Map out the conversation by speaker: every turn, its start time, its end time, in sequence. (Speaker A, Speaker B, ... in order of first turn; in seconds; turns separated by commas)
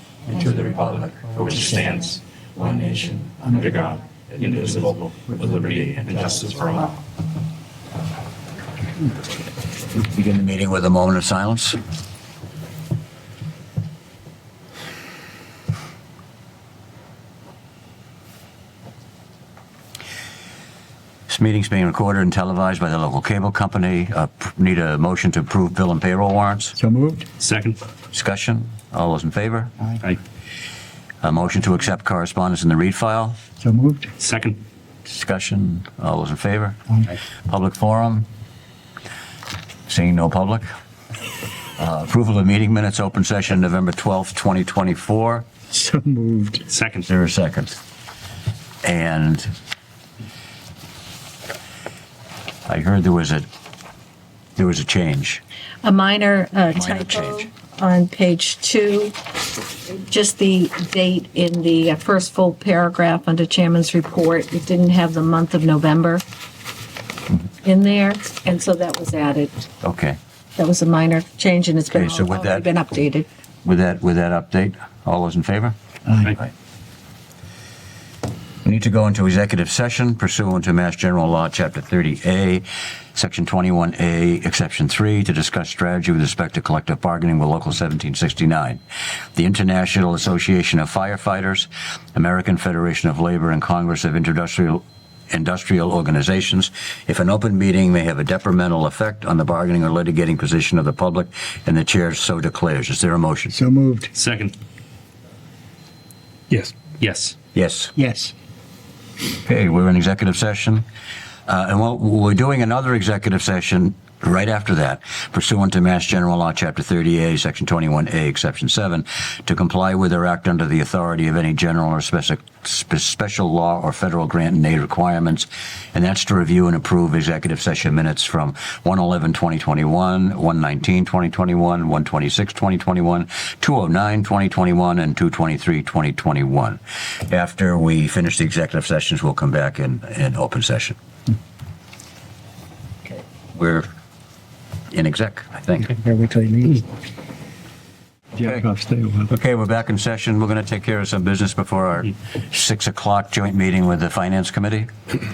Speaker A: 0.3-0.8, Speaker B: 0.6-2.2, Speaker B: 2.8-6.9, Speaker A: 9.9-11.8, Speaker A: 21.3-26.7, Speaker C: 26.8-27.2, Speaker B: 27.4-27.8, Speaker A: 28.1-29.7, Speaker A: 31.2-33.4, Speaker C: 33.6-34.1, Speaker B: 34.2-34.6, Speaker A: 35.0-36.8, Speaker A: 37.5-38.3, Speaker A: 39.9-40.7, Speaker A: 41.8-45.5, Speaker C: 45.7-46.7, Speaker B: 46.7-47.1, Speaker A: 47.1-47.7, Speaker A: 48.8-49.5, Speaker A: 52.7-53.5, Speaker A: 54.5-55.4, Speaker D: 55.8-59.1, Speaker A: 56.7-57.4, Speaker D: 59.8-66.2, Speaker D: 67.6-69.7, Speaker A: 69.8-70.2, Speaker D: 70.6-73.2, Speaker A: 71.9-72.7, Speaker A: 73.6-75.7, Speaker C: 76.0-76.4, Speaker A: 78.6-88.8, Speaker A: 89.3-103.5, Speaker C: 103.5-104.1, Speaker B: 104.1-104.5, Speaker B: 106.5-107.3, Speaker A: 107.5-107.9, Speaker C: 108.0-108.3, Speaker A: 109.4-110.8, Speaker A: 111.5-140.9, Speaker A: 143.5-143.8, Speaker A: 144.9-145.9, Speaker C: 145.8-146.8, Speaker C: 148.3-149.3, Speaker A: 149.3-154.9